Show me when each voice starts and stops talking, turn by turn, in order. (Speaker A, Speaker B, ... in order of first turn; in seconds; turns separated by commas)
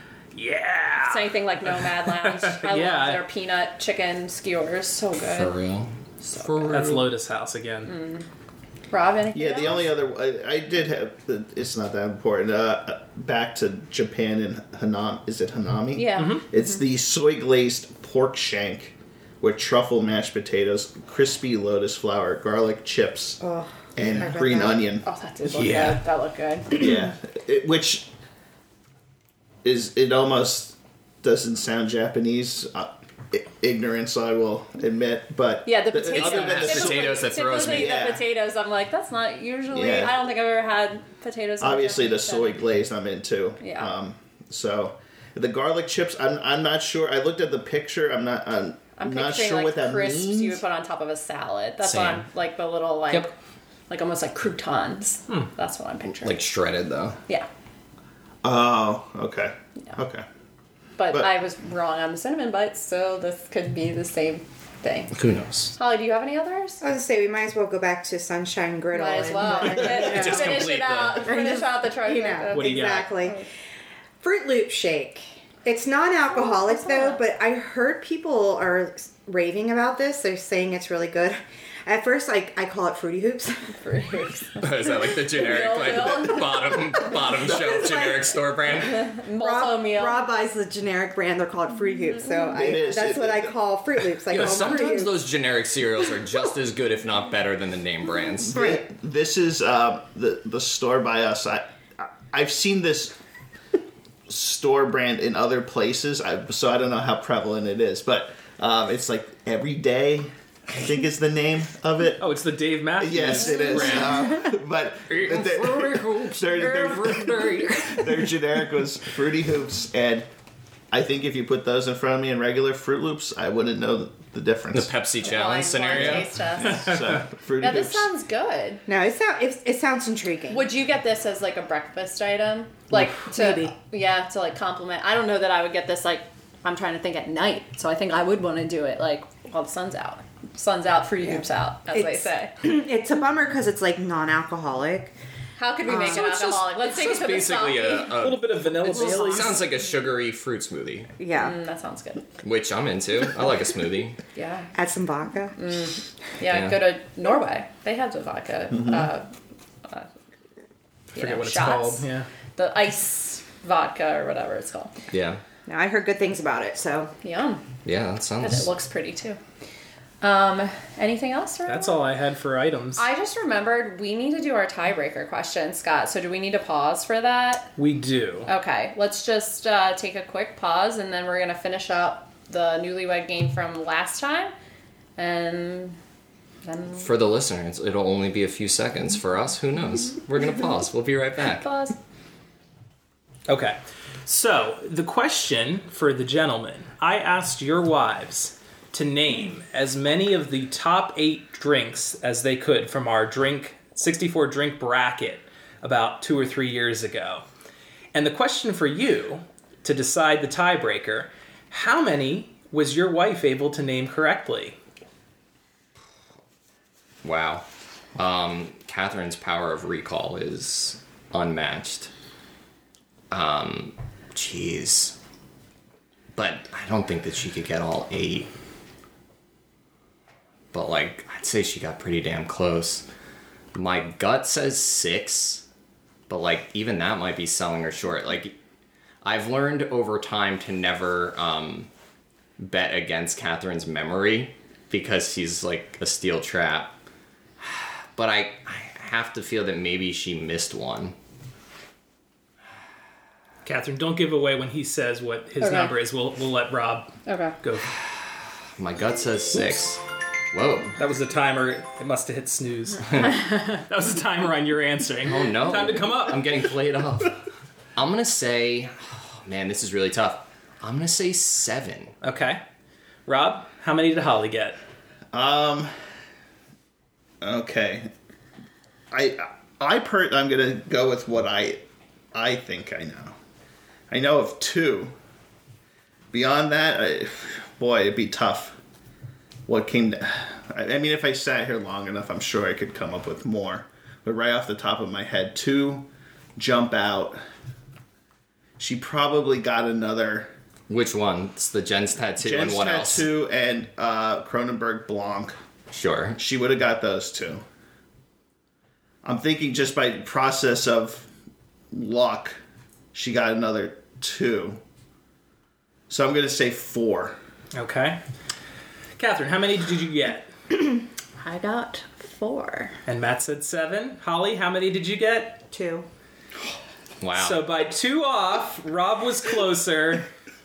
Speaker A: 0.3-3.2, Speaker B: 1.1-5.6, Speaker C: 5.3-7.1, Speaker A: 6.6-7.9, Speaker B: 7.9-8.3, Speaker B: 8.9-9.9, Speaker D: 9.3-23.4, Speaker B: 15.9-16.5, Speaker A: 16.2-16.4, Speaker E: 23.4-24.8, Speaker D: 24.0-25.1, Speaker B: 24.2-26.9, Speaker C: 25.5-26.0, Speaker D: 26.8-28.1, Speaker D: 29.6-38.2, Speaker B: 35.6-42.6, Speaker C: 36.1-38.0, Speaker D: 39.7-40.1, Speaker D: 41.6-50.6, Speaker B: 43.6-43.9, Speaker B: 49.0-53.3, Speaker C: 51.8-52.2, Speaker B: 53.9-56.5, Speaker C: 56.2-57.2, Speaker D: 58.4-60.2, Speaker B: 61.0-65.2, Speaker C: 65.1-65.8, Speaker B: 65.8-66.8, Speaker E: 66.8-73.5, Speaker B: 68.9-73.5, Speaker C: 69.7-71.3, Speaker A: 72.5-73.1, Speaker E: 74.2-83.8, Speaker B: 76.5-77.2, Speaker B: 83.7-86.7, Speaker C: 84.6-89.1, Speaker E: 87.5-88.1, Speaker B: 88.7-90.2, Speaker E: 89.4-95.2, Speaker D: 92.5-93.5, Speaker C: 94.3-98.7, Speaker D: 98.5-103.2, Speaker D: 104.3-112.3, Speaker A: 112.2-114.2, Speaker D: 113.0-120.3, Speaker C: 113.3-114.4, Speaker C: 115.1-118.3, Speaker D: 120.9-124.9, Speaker C: 124.7-126.8, Speaker B: 125.2-127.0, Speaker D: 125.9-128.1, Speaker B: 127.6-128.8, Speaker E: 128.9-130.7, Speaker B: 130.5-142.6, Speaker E: 132.9-133.7, Speaker E: 141.9-145.1, Speaker B: 145.6-148.1, Speaker E: 145.9-146.7, Speaker C: 146.8-151.1, Speaker A: 148.2-149.6, Speaker E: 151.2-151.6, Speaker B: 151.3-152.2, Speaker C: 152.4-154.2, Speaker B: 154.3-154.7, Speaker E: 154.7-155.6, Speaker B: 155.6-159.3, Speaker C: 156.4-156.8, Speaker B: 159.8-160.1, Speaker B: 161.1-164.9, Speaker A: 161.2-162.3, Speaker C: 165.1-165.4, Speaker E: 165.7-167.1, Speaker B: 167.2-167.6, Speaker C: 167.8-168.7, Speaker B: 168.4-169.4, Speaker B: 170.2-172.1, Speaker A: 171.7-173.1, Speaker B: 173.0-177.8, Speaker A: 177.8-178.5, Speaker B: 178.5-184.5, Speaker B: 185.2-186.0, Speaker B: 186.6-187.1, Speaker C: 187.0-191.8, Speaker B: 191.6-191.9, Speaker A: 193.5-207.4, Speaker A: 208.1-214.8, Speaker C: 217.2-222.1, Speaker C: 223.3-225.2, Speaker C: 226.3-228.5, Speaker C: 230.7-233.1, Speaker C: 233.7-235.7, Speaker C: 236.3-238.6, Speaker C: 239.2-241.9, Speaker C: 242.6-246.9, Speaker C: 247.6-251.2, Speaker A: 253.7-257.9, Speaker B: 255.6-255.9, Speaker B: 257.3-257.6, Speaker C: 258.8-260.0, Speaker C: 260.5-260.9, Speaker A: 261.0-266.5, Speaker C: 265.3-267.4, Speaker C: 268.0-272.1, Speaker A: 272.2-272.6, Speaker A: 273.3-274.8, Speaker D: 275.3-275.9, Speaker D: 277.4-278.1, Speaker D: 279.1-281.8, Speaker D: 282.3-283.4, Speaker D: 284.1-285.1, Speaker D: 286.3-288.8, Speaker D: 289.7-297.4, Speaker D: 298.8-300.5, Speaker C: 300.9-303.3, Speaker D: 302.4-305.6, Speaker C: 305.9-306.4, Speaker D: 306.4-307.6, Speaker D: 309.2-311.3, Speaker D: 311.9-312.6, Speaker D: 313.1-314.8, Speaker D: 316.1-317.4, Speaker A: 317.7-318.2, Speaker A: 319.2-320.5, Speaker B: 321.4-323.0, Speaker A: 323.1-325.6, Speaker E: 325.7-326.1, Speaker C: 327.2-327.6, Speaker A: 327.4-330.3